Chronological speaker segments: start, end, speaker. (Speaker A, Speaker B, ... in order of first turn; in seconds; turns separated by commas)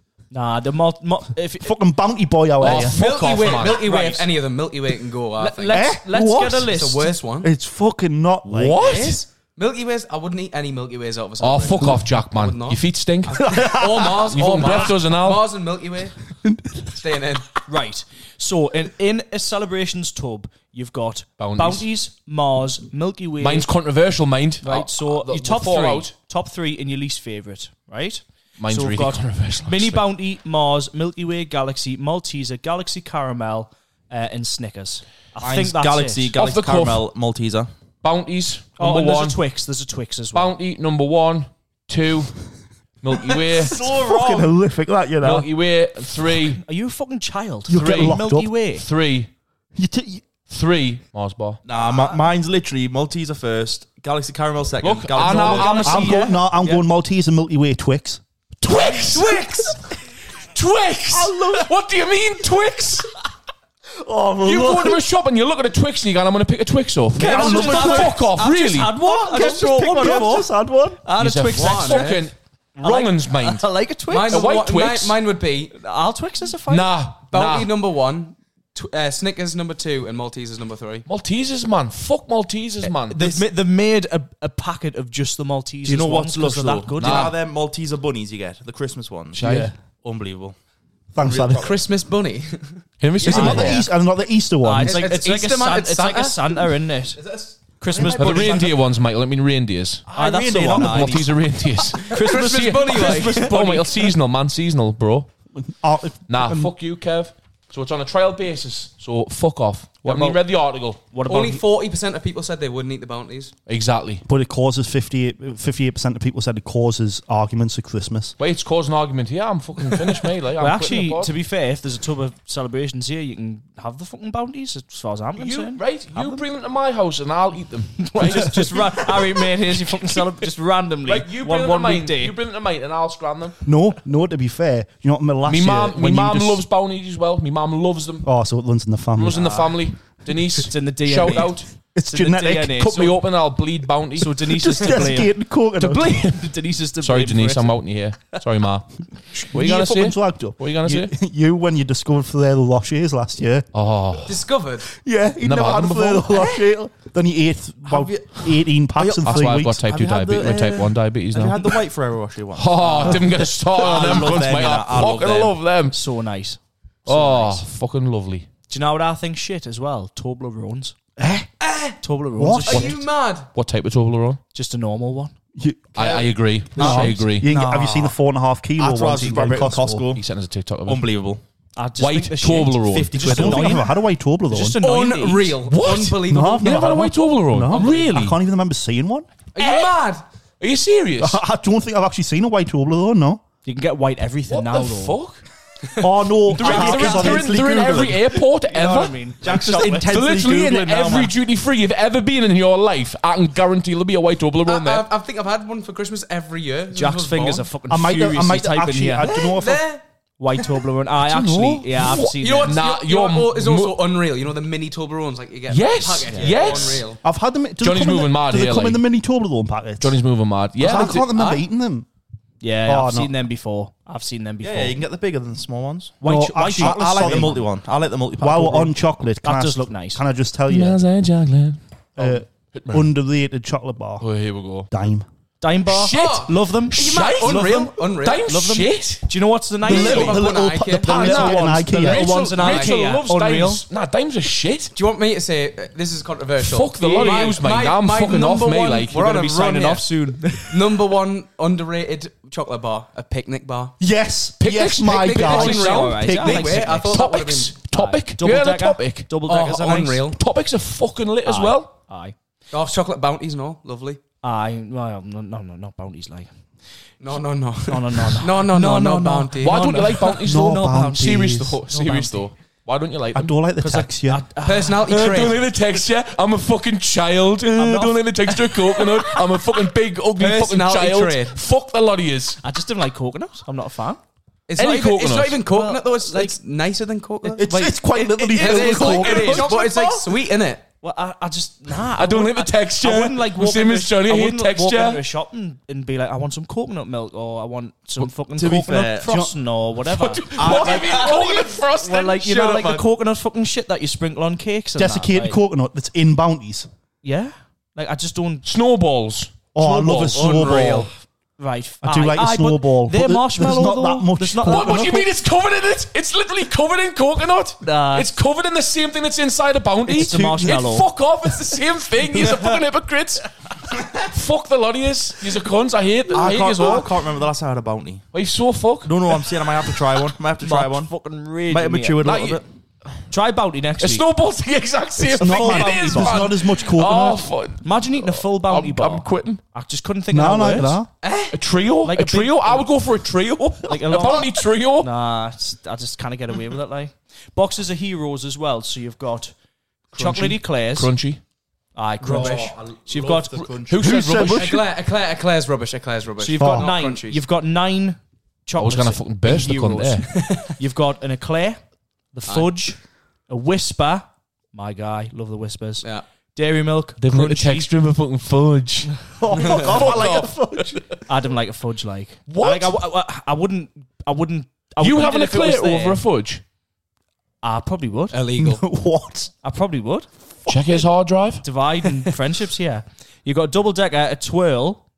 Speaker A: 0.3-1.8, Speaker B: 1.6-3.0, Speaker C: 2.6-3.8, Speaker D: 2.7-5.9, Speaker A: 3.5-4.3, Speaker A: 5.4-7.1, Speaker B: 5.7-6.8, Speaker D: 6.7-7.5, Speaker B: 7.4-9.1, Speaker C: 8.4-9.2, Speaker D: 8.8-16.1, Speaker C: 11.4-15.5, Speaker B: 13.3-14.3, Speaker B: 16.4-16.9, Speaker D: 16.9-17.5, Speaker A: 17.6-23.7, Speaker C: 21.4-21.9, Speaker C: 23.4-26.1, Speaker A: 24.6-36.3, Speaker C: 28.6-30.0, Speaker E: 35.4-37.7, Speaker C: 36.4-37.1, Speaker C: 38.0-39.4, Speaker A: 38.8-40.5, Speaker C: 40.3-42.4, Speaker C: 43.0-43.8, Speaker A: 43.6-44.5, Speaker B: 43.7-45.5, Speaker C: 45.2-46.6, Speaker A: 46.6-48.9, Speaker B: 47.7-48.5, Speaker C: 47.7-48.2, Speaker C: 48.7-49.3, Speaker B: 49.7-50.2, Speaker C: 50.5-51.6, Speaker E: 51.6-56.0, Speaker C: 54.8-56.2, Speaker A: 55.2-56.8, Speaker B: 55.8-58.2, Speaker C: 58.6-59.5, Speaker D: 59.0-59.8, Speaker C: 60.5-63.1, Speaker B: 61.1-61.7, Speaker B: 64.0-65.0, Speaker C: 64.4-69.0, Speaker A: 67.2-70.5, Speaker B: 67.2-68.2, Speaker B: 69.0-71.0, Speaker A: 71.0-72.2, Speaker C: 71.2-73.7, Speaker D: 71.5-72.2, Speaker A: 72.8-74.5, Speaker D: 74.1-75.8, Speaker C: 74.3-75.2, Speaker A: 75.7-76.9, Speaker C: 76.7-77.7, Speaker D: 77.3-81.1, Speaker C: 81.1-83.3, Speaker A: 83.0-87.3, Speaker E: 85.8-89.4, Speaker C: 87.0-87.4, Speaker C: 89.3-89.7, Speaker B: 89.4-89.7, Speaker E: 90.0-90.5, Speaker B: 91.1-91.8, Speaker E: 91.2-91.8, Speaker D: 91.5-92.8, Speaker C: 93.0-93.8, Speaker E: 93.2-93.8, Speaker B: 93.2-95.0, Speaker A: 93.2-93.8, Speaker A: 94.6-98.7, Speaker D: 94.8-96.6, Speaker E: 97.2-98.8, Speaker C: 98.0-100.0, Speaker E: 100.1-101.3, Speaker A: 100.1-101.3, Speaker C: 100.7-105.3, Speaker A: 102.0-104.1, Speaker D: 102.1-103.5, Speaker B: 105.6-106.7, Speaker C: 106.3-111.0, Speaker A: 110.0-110.4, Speaker A: 111.1-111.6, Speaker D: 111.2-113.5, Speaker C: 113.7-114.2, Speaker B: 114.2-118.3, Speaker C: 118.4-121.3, Speaker A: 120.6-126.4, Speaker C: 125.4-130.2, Speaker A: 128.0-132.3, Speaker C: 131.1-133.6, Speaker B: 133.6-136.6, Speaker C: 135.4-138.3, Speaker B: 138.2-139.5, Speaker C: 139.2-141.7, Speaker A: 139.3-139.8, Speaker A: 140.6-143.2, Speaker B: 141.9-142.8, Speaker C: 142.6-144.4, Speaker A: 144.2-145.3, Speaker B: 144.5-146.2, Speaker C: 145.8-151.1, Speaker A: 146.1-147.8, Speaker B: 149.3-153.7, Speaker C: 153.7-154.4, Speaker D: 154.3-154.9, Speaker B: 154.9-159.8, Speaker C: 155.4-156.4, Speaker E: 157.8-165.5, Speaker C: 159.2-161.8, Speaker C: 162.5-166.0, Speaker A: 165.9-167.7, Speaker C: 167.1-168.5, Speaker A: 168.7-171.0, Speaker B: 171.2-171.5, Speaker D: 171.6-172.0, Speaker A: 172.0-173.0, Speaker B: 172.4-173.0, Speaker D: 172.6-173.5, Speaker C: 172.7-173.0, Speaker C: 173.5-174.4, Speaker A: 174.5-175.3, Speaker B: 175.6-176.2, Speaker C: 175.9-177.5, Speaker E: 176.0-178.1, Speaker B: 176.7-180.1, Speaker E: 178.8-180.2, Speaker C: 180.1-181.1, Speaker E: 180.8-181.4, Speaker A: 181.8-183.9, Speaker C: 182.0-183.2, Speaker E: 182.9-183.9, Speaker B: 183.2-184.8, Speaker A: 184.5-185.6, Speaker D: 184.8-186.7, Speaker C: 185.6-188.4, Speaker B: 186.3-189.3, Speaker D: 187.8-188.0, Speaker D: 189.6-190.2, Speaker C: 189.6-190.0, Speaker C: 190.6-191.4, Speaker B: 191.2-193.4, Speaker A: 193.6-195.2, Speaker C: 194.5-195.4, Speaker B: 196.0-198.3, Speaker A: 196.5-197.6, Speaker C: 196.5-199.2, Speaker A: 198.6-200.2, Speaker E: 199.4-201.3, Speaker C: 199.9-205.1, Speaker D: 204.6-207.7, Speaker A: 206.9-209.3, Speaker B: 207.9-209.8, Speaker D: 209.2-210.0, Speaker A: 210.4-212.8, Speaker B: 211.2-211.9, Speaker C: 211.9-214.0, Speaker D: 212.3-217.2, Speaker C: 215.7-217.1, Speaker E: 216.3-216.8, Speaker B: 217.2-220.2, Speaker C: 217.8-219.0, Speaker C: 220.0-221.3, Speaker B: 220.8-222.1, Speaker D: 221.1-221.6, Speaker A: 222.6-225.0, Speaker B: 222.8-223.3, Speaker E: 224.6-226.2, Speaker A: 226.2-227.6, Speaker B: 226.2-227.6, Speaker E: 226.8-228.9, Speaker B: 228.4-231.0, Speaker A: 229.4-230.2, Speaker C: 230.7-231.8, Speaker B: 232.2-234.3, Speaker C: 232.7-233.1, Speaker C: 234.2-234.9, Speaker B: 234.9-235.3, Speaker A: 235.6-237.9, Speaker C: 235.9-239.3, Speaker D: 236.1-238.4, Speaker A: 238.4-240.4, Speaker B: 239.8-242.3, Speaker C: 239.9-240.4, Speaker D: 239.9-241.3, Speaker C: 241.0-244.9, Speaker A: 241.1-243.8, Speaker D: 242.5-243.1, Speaker D: 244.9-250.1, Speaker C: 246.6-249.3, Speaker A: 247.0-247.6, Speaker A: 249.1-251.0, Speaker D: 250.7-253.9, Speaker B: 254.0-256.8, Speaker C: 254.6-259.3, Speaker D: 255.0-257.8, Speaker A: 255.5-257.2, Speaker A: 257.9-260.3, Speaker D: 259.4-260.4, Speaker C: 260.3-261.9, Speaker A: 261.4-262.4, Speaker D: 262.7-264.2, Speaker A: 264.4-266.5, Speaker D: 267.2-270.0, Speaker A: 267.9-272.4, Speaker C: 269.6-273.6, Speaker B: 270.4-271.8, Speaker B: 273.3-274.4, Speaker A: 273.8-275.1, Speaker D: 274.6-275.6, Speaker C: 275.0-282.6, Speaker A: 277.7-279.4, Speaker D: 280.4-281.6, Speaker A: 282.6-284.2, Speaker D: 284.7-290.9, Speaker C: 284.8-285.6, Speaker A: 285.6-286.6, Speaker A: 287.4-290.0, Speaker B: 287.6-290.3, Speaker A: 291.0-301.3, Speaker C: 292.2-295.2, Speaker E: 298.6-299.4, Speaker B: 299.2-299.5, Speaker C: 300.1-302.4, Speaker E: 300.6-301.3, Speaker D: 300.6-303.1, Speaker A: 301.9-305.6, Speaker B: 305.0-306.9, Speaker A: 307.2-308.6, Speaker C: 308.6-311.0, Speaker B: 309.7-311.1, Speaker D: 310.3-311.1, Speaker A: 310.6-310.9, Speaker A: 311.6-315.2, Speaker B: 312.0-315.2, Speaker C: 314.6-327.2, Speaker A: 317.8-318.3, Speaker A: 320.1-321.1, Speaker E: 326.3-328.2, Speaker C: 328.3-329.9, Speaker E: 329.0-331.1, Speaker A: 330.6-332.2, Speaker E: 331.7-332.6, Speaker C: 332.2-332.6, Speaker A: 333.3-334.2, Speaker C: 334.0-339.6, Speaker A: 335.3-336.5, Speaker B: 335.4-337.5, Speaker A: 337.8-341.0, Speaker B: 340.3-341.1, Speaker D: 341.2-341.6, Speaker C: 341.5-345.1, Speaker A: 342.0-342.9, Speaker A: 343.8-349.5, Speaker A: 350.1-351.1, Speaker C: 350.1-351.4, Speaker A: 351.9-353.7, Speaker D: 352.2-352.8, Speaker E: 352.3-354.2, Speaker C: 353.8-354.8, Speaker B: 354.0-354.9, Speaker D: 354.5-357.4, Speaker A: 356.4-361.8, Speaker B: 356.6-356.9, Speaker C: 358.8-360.3, Speaker D: 360.3-360.8, Speaker A: 362.3-367.9, Speaker D: 362.5-362.7, Speaker C: 367.2-371.0, Speaker B: 369.4-371.1, Speaker D: 369.5-370.0, Speaker A: 371.3-376.2, Speaker C: 372.5-373.0, Speaker C: 375.0-376.6, Speaker A: 377.6-378.4, Speaker D: 378.3-378.8, Speaker B: 378.6-379.5, Speaker A: 379.6-380.3, Speaker B: 380.7-380.9, Speaker C: 380.7-381.6, Speaker A: 381.6-385.0